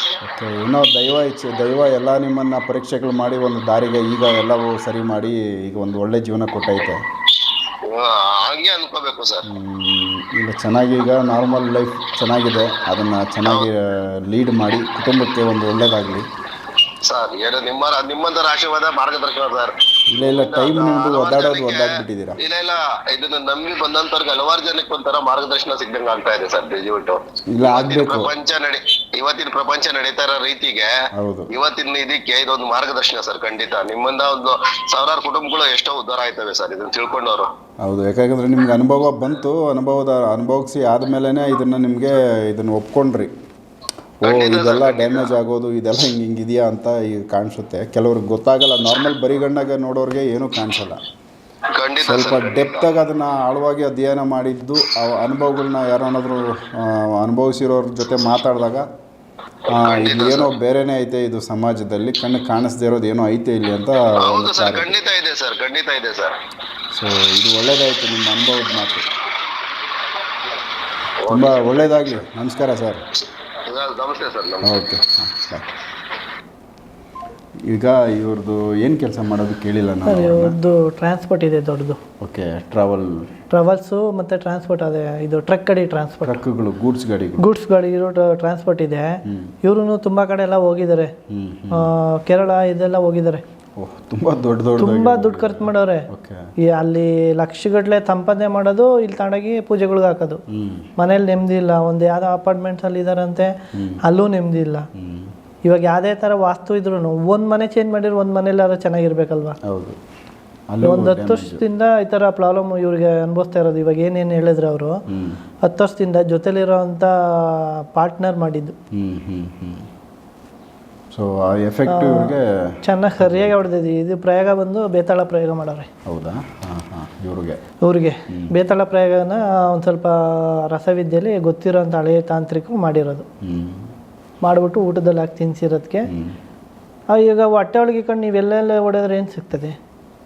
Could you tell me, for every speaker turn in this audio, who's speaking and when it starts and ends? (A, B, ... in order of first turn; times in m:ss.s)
0:00.2-0:07.0 A
0:07.8-0:09.4 B
0:09.5-0:16.2 A
0:13.4-0:13.7 B
0:17.0-0:30.9 B
0:20.1-0:22.4 A
0:27.5-0:28.3 A
0:31.2-0:31.5 A
0:31.5-0:37.5 B
0:37.8-0:43.3 A
0:44.2-0:51.0 A
0:44.2-0:45.3 B
0:51.7-0:52.8 B
0:52.0-0:58.8 A
0:59.7-1:00.5 B
0:59.7-1:05.0 A
1:04.2-1:06.3 B
1:06.9-1:09.0 A
1:11.2-1:12.2 B
1:11.3-1:13.0 A
1:13.6-1:14.7 B
1:14.6-1:15.7 A
1:17.6-1:20.6 A
1:20.1-1:22.0 C
1:22.2-1:23.3 A
1:23.5-1:26.4 C
1:26.2-1:27.5 A
1:27.4-1:31.1 C
1:29.2-1:29.5 A
1:31.3-1:31.9 A
1:31.7-1:33.4 C
1:33.8-1:36.5 A
1:34.8-1:36.1 C
1:36.6-1:40.4 C
1:40.5-1:40.9 A
1:41.0-1:43.5 C
1:43.7-1:44.0 A
1:44.0-1:44.8 C
1:44.9-1:45.3 A
1:45.6-1:49.6 C
1:49.6-1:50.0 A
1:50.7-1:51.6 A
1:50.8-1:55.0 C
1:55.1-1:55.4 A
1:55.6-1:58.7 C
1:58.9-1:59.9 A
2:01.1-2:03.5 A
2:01.9-2:05.9 C
2:06.0-2:07.6 A
2:07.8-2:13.2 C
2:13.4-2:13.9 A
2:14.4-2:16.1 C
2:16.1-2:16.3 A
2:17.1-2:19.8 C